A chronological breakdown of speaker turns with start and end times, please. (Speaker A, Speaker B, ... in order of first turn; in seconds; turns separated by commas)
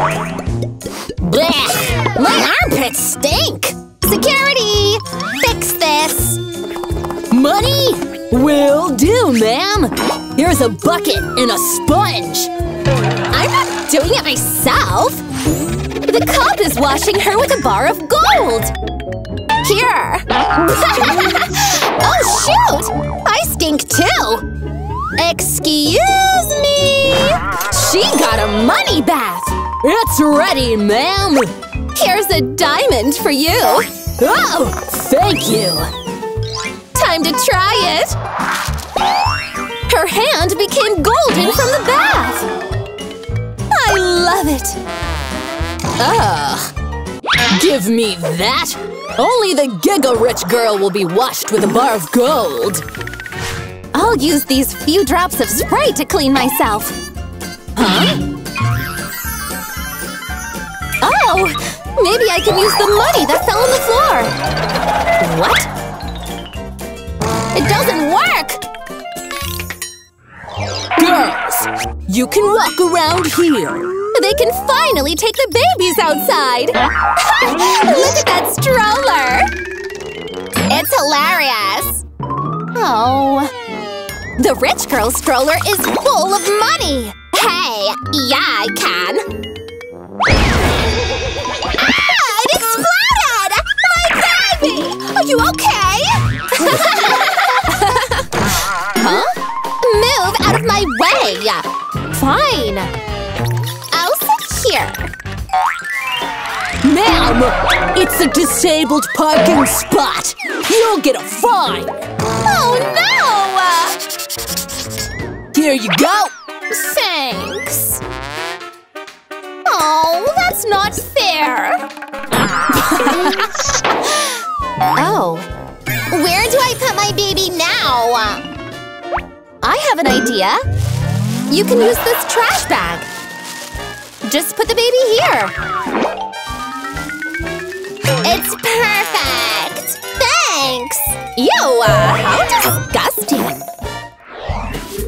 Speaker A: 1.2-3.8, Speaker B: 2.1-2.7, Speaker B: 3.9-6.4, Speaker A: 7.3-12.5, Speaker B: 13.3-15.2, Speaker B: 16.1-18.7, Speaker B: 19.6-24.4, Speaker B: 25.2-29.6, Speaker A: 29.8-31.5, Speaker B: 31.9-33.9, Speaker A: 34.2-35.9, Speaker B: 37.0-38.2, Speaker B: 39.9-42.5, Speaker B: 43.7-44.8, Speaker B: 46.0-46.7, Speaker A: 47.5-52.8, Speaker B: 53.9-57.0, Speaker B: 57.8-58.2, Speaker B: 61.0-64.3, Speaker B: 65.2-65.7, Speaker B: 67.5-68.6, Speaker A: 71.0-73.9, Speaker B: 74.1-79.5, Speaker B: 80.7-82.0, Speaker B: 82.8-83.5, Speaker B: 84.4-89.2, Speaker B: 91.8-98.3, Speaker B: 99.0-102.9, Speaker B: 103.9-105.0, Speaker A: 106.8-112.1, Speaker B: 112.4-114.0, Speaker A: 115.5-116.3, Speaker B: 116.7-118.0, Speaker B: 119.7-121.8, Speaker B: 122.7-124.3, Speaker B: 125.0-125.5, Speaker B: 126.1-128.4, Speaker B: 129.6-130.6, Speaker B: 131.5-133.1, Speaker B: 134.2-135.5, Speaker B: 138.2-143.7